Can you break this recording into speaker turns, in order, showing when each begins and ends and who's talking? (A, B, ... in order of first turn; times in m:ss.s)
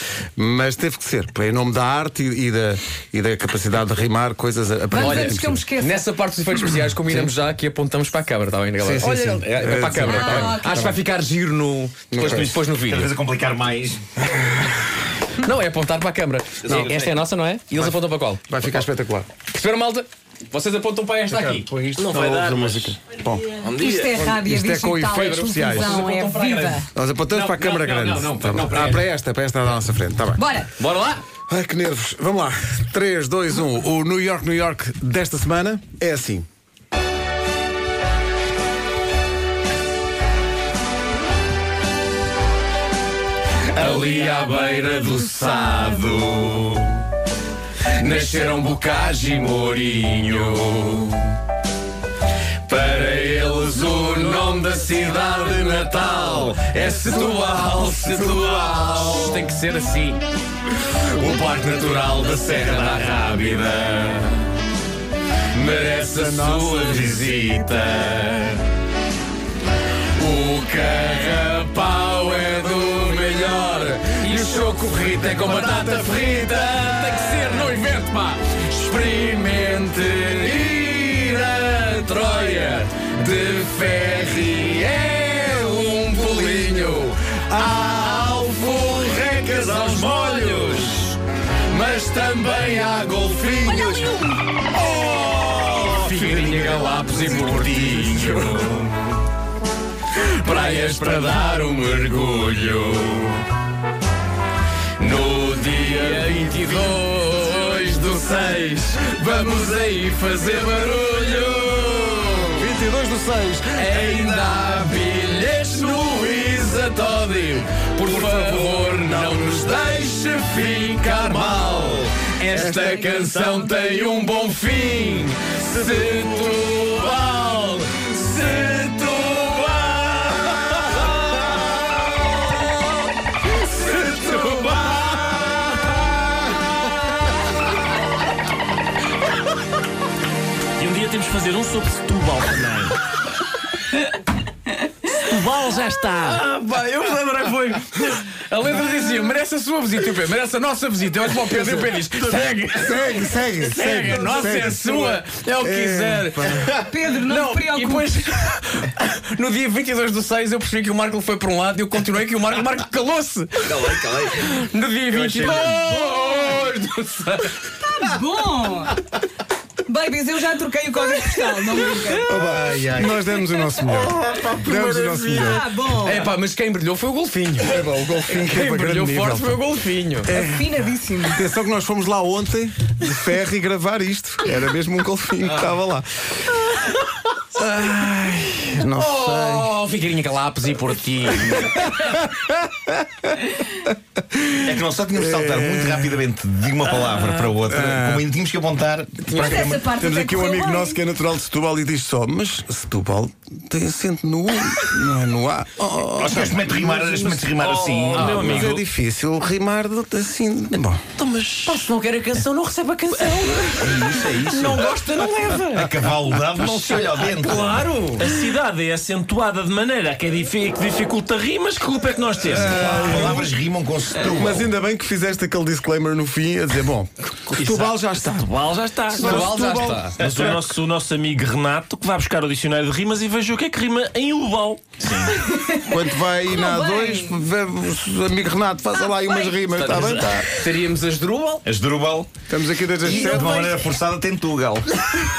0:00.4-0:05.6 A
0:04.9-0:06.0 B
0:05.0-0:13.1 C
0:07.1-0:07.3 A
0:08.8-0:11.0 A
0:10.0-0:10.9 B
0:12.1-0:12.6 A
0:12.8-0:14.1 D
0:15.4-0:18.4 C
0:16.6-0:17.2 D
0:18.5-0:19.3 A
0:19.4-0:21.7 C
0:21.3-0:23.4 A
0:22.0-0:24.3 E
0:23.7-0:26.9 B
0:24.2-0:26.0 A
0:25.1-0:29.0 C
0:26.9-0:30.5 A
0:30.4-0:30.7 B
0:30.8-0:31.2 C
0:31.5-0:36.4 A
0:43.7-0:47.0 C
0:47.9-0:51.4 C
0:52.6-1:00.2 C
1:00.8-1:04.5 C
1:05.5-1:08.6 C
1:06.1-1:07.1 A
1:10.2-1:39.2 C
1:40.1-1:43.5 C
1:45.0-1:52.7 C
1:52.6-1:53.9 A
1:53.7-2:11.6 C
2:13.5-2:15.9 C
2:20.8-2:23.0 E
2:25.1-2:26.4 E
2:26.2-2:47.7 C
2:32.8-2:36.7 A
2:36.7-2:38.1 B
2:43.6-2:44.5 D
2:45.1-2:45.7 D
2:45.7-2:46.6 B
2:47.8-2:49.0 B
2:49.8-2:52.3 B
2:52.3-2:53.2 D
2:52.3-2:55.6 A
2:54.1-2:54.6 D
2:54.4-2:57.8 C
2:55.4-2:56.3 B
2:57.6-2:59.6 A
2:58.3-3:00.3 C
3:00.3-3:00.7 A
3:00.3-3:01.4 B
3:01.3-3:06.6 A
3:07.5-3:09.7 A
3:08.8-3:12.2 C
3:11.8-3:12.9 A
3:14.3-3:16.2 A
3:14.6-3:19.8 D
3:17.2-3:18.2 A
3:19.3-3:19.6 C
3:19.3-3:21.0 B
3:19.5-3:27.4 A
3:26.2-3:28.7 D
3:27.5-3:28.8 E
3:27.7-3:28.8 C
3:28.2-3:31.0 A
3:31.2-3:31.9 E
3:31.6-3:38.3 C
3:33.1-3:33.5 E
3:33.8-3:34.9 D
3:35.7-3:37.9 D
3:37.5-3:43.3 E
3:42.5-3:43.5 A
3:42.7-3:44.7 D
3:44.3-3:48.5 A
3:47.5-3:49.6 E
3:49.1-3:50.7 A
3:49.1-3:50.2 C
3:50.2-3:55.4 E
3:55.5-3:55.8 B
3:55.7-4:00.5 A
3:56.5-3:57.4 B
3:59.7-4:01.6 C
4:01.6-4:02.3 D
4:02.5-4:03.6 A
4:03.0-4:05.1 D
4:03.1-4:03.8 B